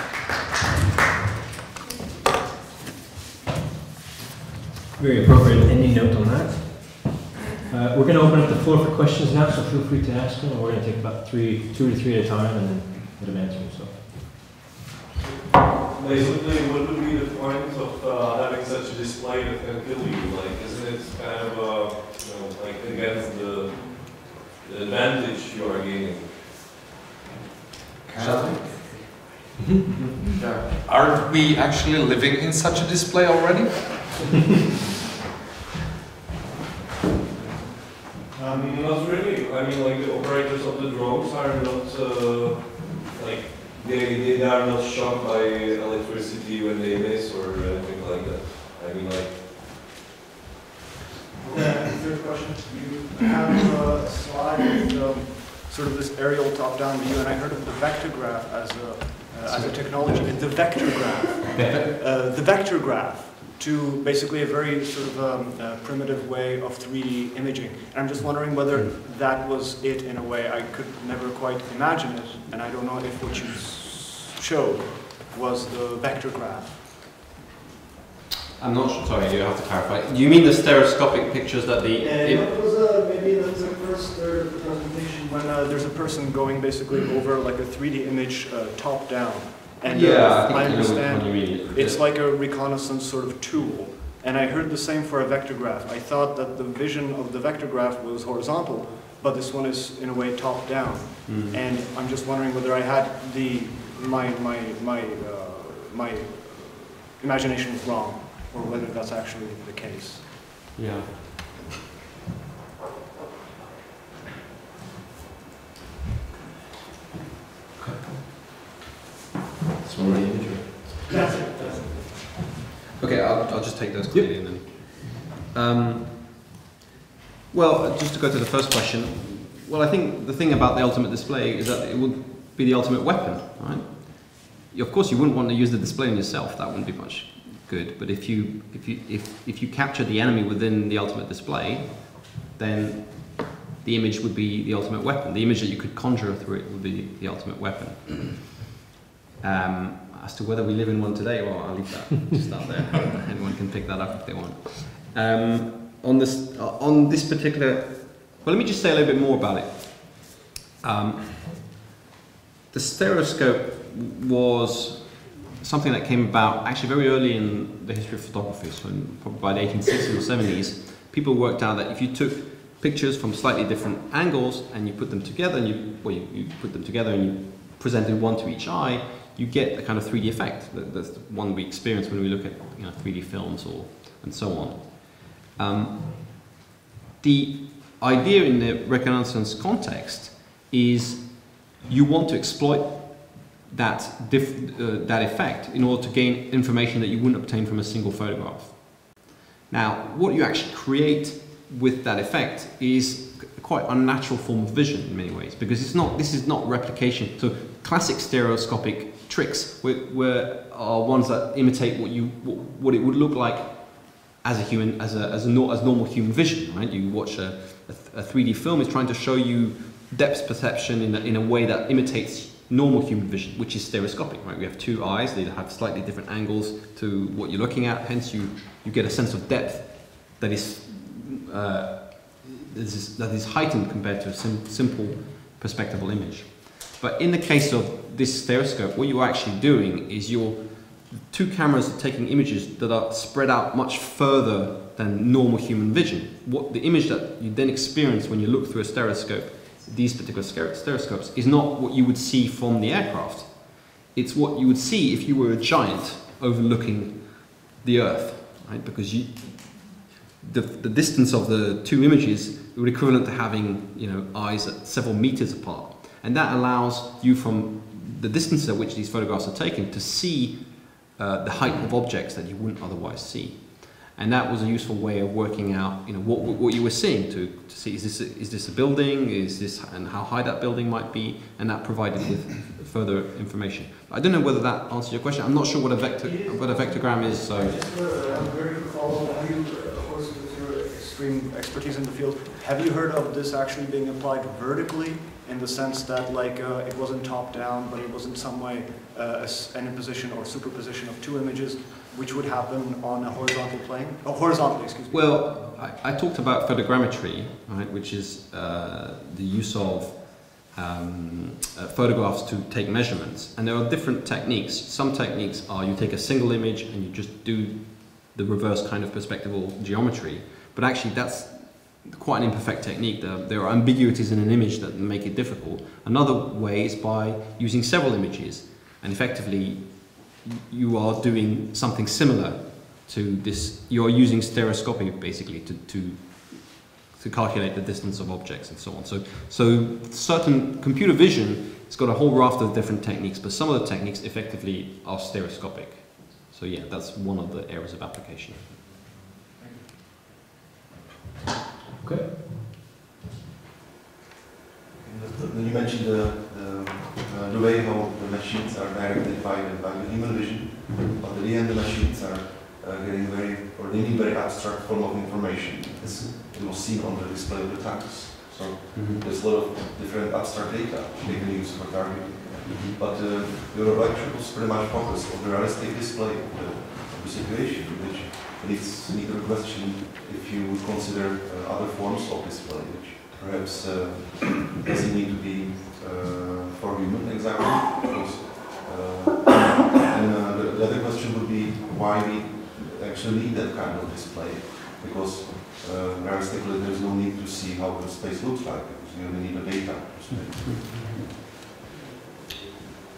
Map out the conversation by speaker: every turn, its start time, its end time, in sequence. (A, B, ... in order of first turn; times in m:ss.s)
0:05.0-0:14.0 A
0:15.9-0:26.4 B
0:28.0-0:28.8 C
0:29.6-0:30.1 C
0:30.8-0:34.3 C
0:38.3-0:38.7 D
0:38.5-0:49.4 B
0:51.4-1:17.0 D
1:18.6-1:22.5 E
1:22.0-1:50.4 D
1:29.8-1:32.0 E
1:41.2-1:41.6 E
1:50.8-1:51.3 E
1:59.8-2:01.1 A
2:01.1-2:02.3 D
2:03.0-2:06.4 E
2:07.5-2:28.6 E
2:29.4-2:41.8 E
2:42.7-3:06.5 E
3:07.2-4:47.8 E
4:46.2-5:05.8 D
5:05.1-5:48.8 E
5:49.6-5:49.9 F
5:52.0-5:52.4 A
5:55.0-6:41.0 F
6:06.0-6:06.3 E
6:08.9-6:09.3 E
6:11.2-6:11.5 E
6:12.6-6:13.0 E
6:40.3-6:41.2 E